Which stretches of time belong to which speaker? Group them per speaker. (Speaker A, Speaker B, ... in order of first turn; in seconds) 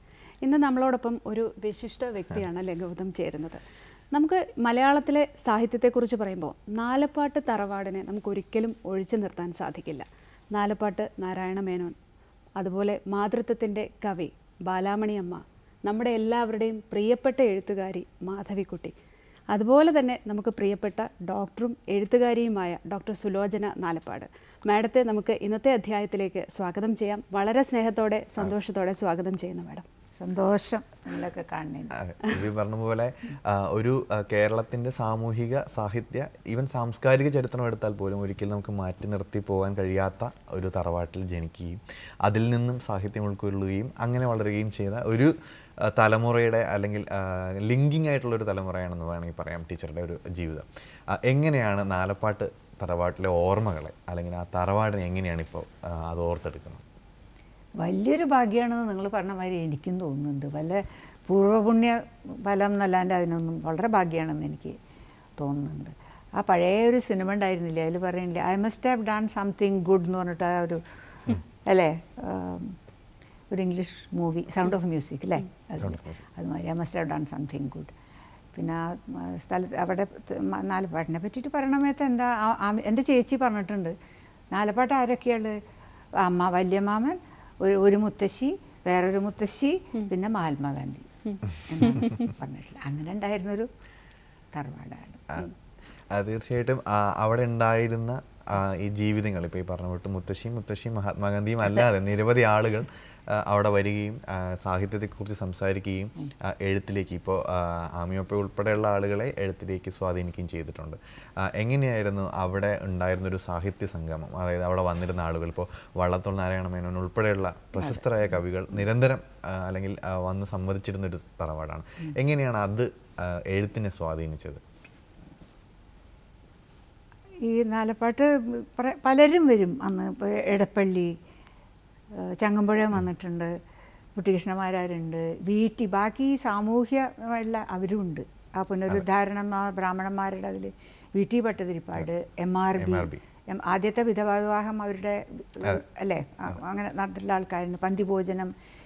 Speaker A: 0.4-12.0, 12.6-18.9, 19.5-29.9
Speaker B: 30.2-32.0, 57.8-64.8, 65.4-72.8, 73.5-77.9, 78.5-84.0, 84.5-85.6, 86.2-93.7, 94.5-95.4, 127.4-131.2, 132.1-133.6, 134.2-148.5
Speaker C: 31.9-56.8, 75.8-76.2, 96.1-124.6, 142.8-143.2